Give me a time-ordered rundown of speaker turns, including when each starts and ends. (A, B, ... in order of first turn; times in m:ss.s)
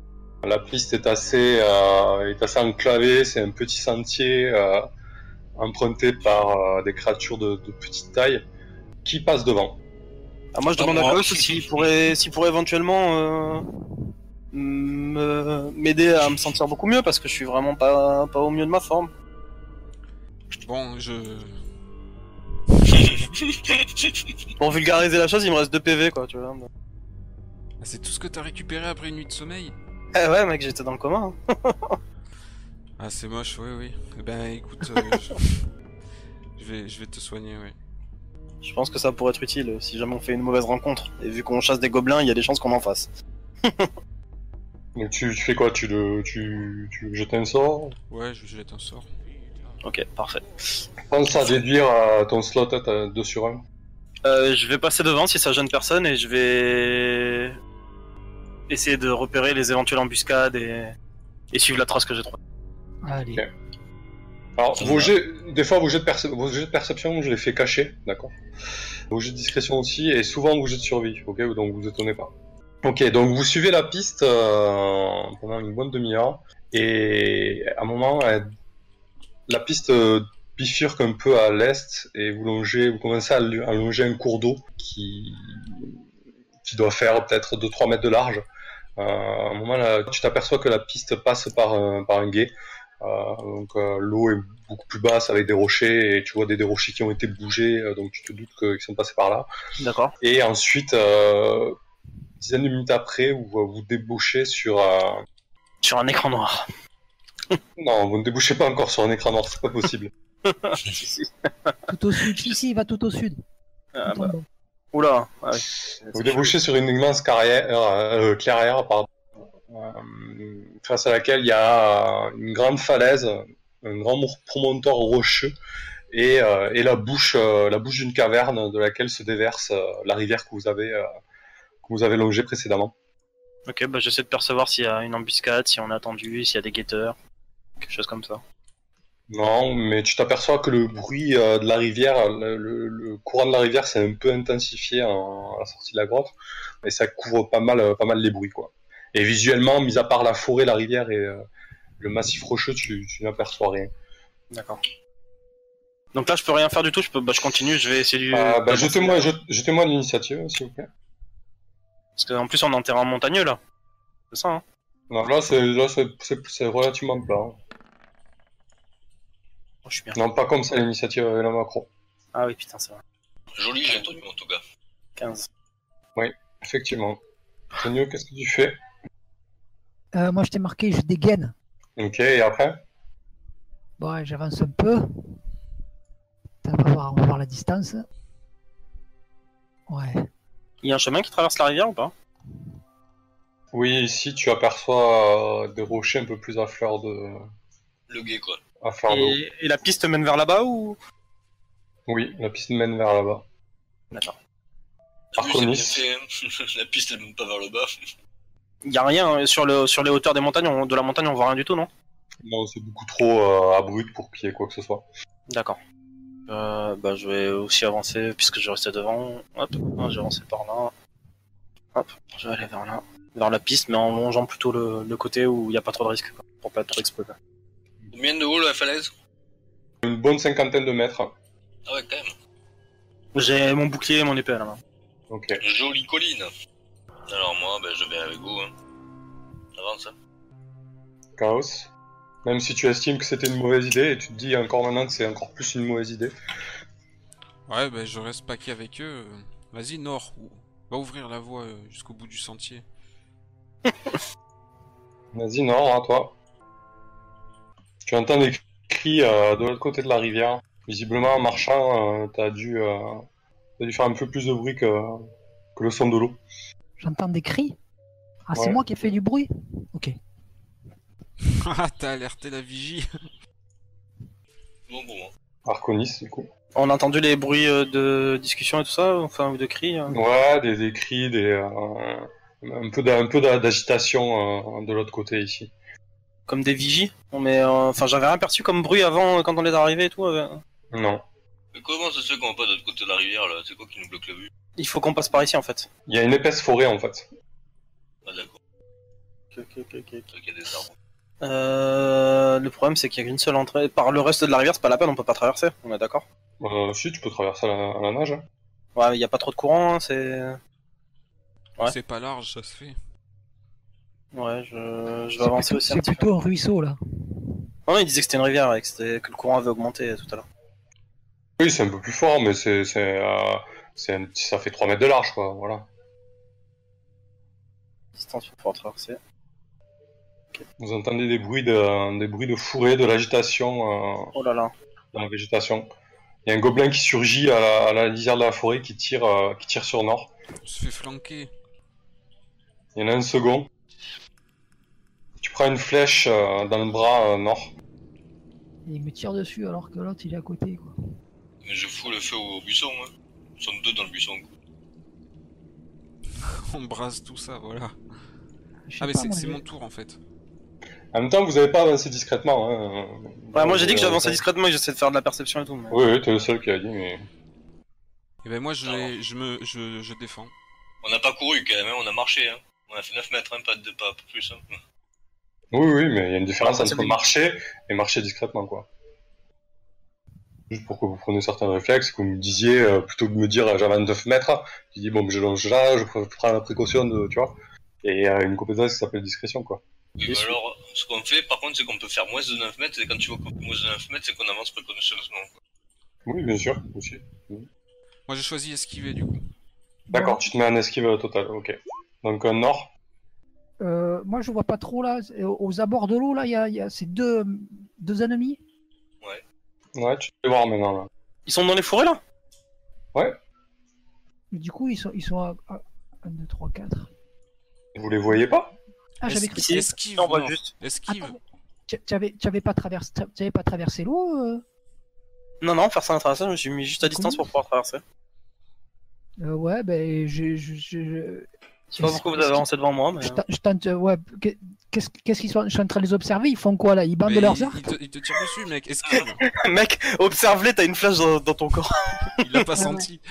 0:00.4-0:04.9 A
0:05.6-0:08.4 A
0:09.0-0:09.8 A
0:10.6-0:13.7 B
0:10.8-0:11.9 C
0:14.5-0:19.1 B
0:16.2-0:16.5 C
0:20.5-0:21.6 D
0:22.8-0:24.3 C
0:24.6-0:26.7 B
0:27.8-0:29.8 D
0:30.1-0:32.0 B
0:33.0-0:35.6 D
0:36.6-0:37.8 D
0:38.6-0:43.1 B
0:43.6-0:43.9 B
0:45.0-0:47.9 A
0:48.1-0:49.1 D
0:49.8-0:50.8 B
0:51.1-0:53.6 A
0:54.2-0:57.6 B
0:58.7-1:01.0 B
1:01.5-1:02.4 B
1:03.0-1:03.4 E
1:04.6-1:08.3 A
1:04.8-1:05.1 C
1:09.1-1:12.3 A
1:12.8-1:18.5 A
1:19.5-1:26.0 A
1:26.6-1:28.4 A
1:29.0-1:39.5 A
1:39.8-1:40.2 B
1:40.2-1:41.8 A
1:42.4-1:45.2 A
1:45.8-1:46.7 B
1:47.8-1:50.1 A
1:50.4-1:51.8 B
1:51.9-1:53.4 E
1:54.0-1:54.3 B
1:54.1-1:54.5 E
1:54.9-1:56.6 B
1:56.1-1:59.1 A
1:59.7-2:05.5 A
2:06.1-2:11.1 A
2:11.8-2:12.9 A
2:13.7-2:17.2 B
2:17.8-2:18.4 B
2:19.3-2:31.5 A
2:32.0-2:33.9 A
2:34.5-2:34.8 B
2:36.1-2:39.3 B
2:38.3-2:40.9 A
2:42.2-2:43.6 B
2:44.3-2:44.6 B
2:45.1-2:47.6 A
2:49.9-2:50.2 B
2:50.2-2:51.9 A
2:52.3-2:53.0 B
2:53.6-2:54.6 C
2:53.9-2:54.1 B
2:55.2-2:55.5 B
2:56.2-2:57.2 A
2:57.8-2:58.8 A
3:00.1-3:01.5 E
3:02.0-3:02.8 A
3:04.0-3:05.0 E
3:06.6-3:08.1 E
3:09.9-3:10.3 E
3:10.8-3:12.1 B
3:13.7-3:17.5 A
3:18.1-3:18.6 C
3:18.8-3:19.4 A
3:19.1-3:21.0 B
3:22.1-3:23.4 A
3:24.1-3:24.4 B
3:25.3-3:27.9 C
3:25.4-3:26.0 A
3:28.8-3:31.9 B
3:32.4-3:35.0 A
3:35.5-3:35.8 B
3:36.5-3:40.9 B
3:42.0-3:47.4 B
3:48.1-3:49.1 C
3:50.0-3:51.3 A
3:51.9-3:52.4 C
3:53.3-3:54.8 B
3:55.3-3:55.6 A
3:55.6-3:56.5 C
3:57.3-3:58.7 C
3:59.8-4:00.2 C
4:01.4-4:01.9 A
4:02.4-4:06.3 A
4:07.7-4:12.8 D
4:15.3-4:16.4 A
4:18.0-4:23.2 A
4:23.8-4:25.2 A
4:25.8-4:26.4 A
4:27.0-4:27.8 E
4:28.5-4:30.2 E
4:31.4-4:33.1 D
4:34.9-4:35.3 C
4:35.6-4:36.5 A
4:36.8-4:40.2 B
4:40.1-4:45.7 A
4:46.5-4:50.6 B
4:50.9-4:51.2 A
4:51.7-4:54.5 C
4:54.8-4:55.9 B
4:56.1-4:57.3 A
4:58.3-4:58.6 C
4:59.5-5:00.3 B
5:00.3-5:00.9 C
5:01.4-5:06.2 B
5:06.6-5:08.4 A
5:09.0-5:10.6 B
5:11.8-5:13.0 D
5:14.3-5:16.2 B
5:15.4-5:17.0 E
5:17.9-5:20.4 B
5:21.6-5:25.9 A
5:28.2-5:29.2 B
5:30.8-5:34.3 A
5:34.4-5:34.7 B
5:35.1-5:35.9 A
5:36.5-5:40.3 A
5:40.6-5:41.5 D
5:43.0-5:43.7 A
5:45.4-5:47.7 A
5:48.9-5:50.9 E
5:51.6-5:54.5 C
5:56.4-5:58.0 D
5:58.9-5:59.6 E
5:59.0-6:00.2 D
6:01.1-6:04.5 A
6:03.6-6:06.0 B
6:05.9-6:07.3 A
6:08.4-6:10.5 D
6:08.8-6:09.1 C
6:11.0-6:14.8 C
6:15.7-6:18.9 A
6:16.6-6:17.2 B
6:20.7-6:29.8 A
6:30.2-6:35.5 C
6:30.3-6:30.6 B
6:36.3-6:37.7 A
6:38.3-6:39.4 D
6:40.1-6:40.4 E
6:40.1-6:42.9 A
6:43.8-6:48.6 E
6:50.0-6:51.1 A
6:51.5-6:52.2 B
6:54.5-6:57.1 E
6:58.0-6:58.8 A
6:59.2-6:59.9 E
6:59.3-7:01.4 D
6:59.6-7:00.7 B
7:01.1-7:04.6 E
7:05.6-7:08.0 B
7:07.0-7:07.5 E
7:09.4-7:12.7 E
7:11.9-7:13.4 B
7:13.2-7:17.9 E
7:17.3-7:19.4 D
7:19.2-7:22.8 B
7:22.4-7:23.2 D
7:22.8-7:23.1 E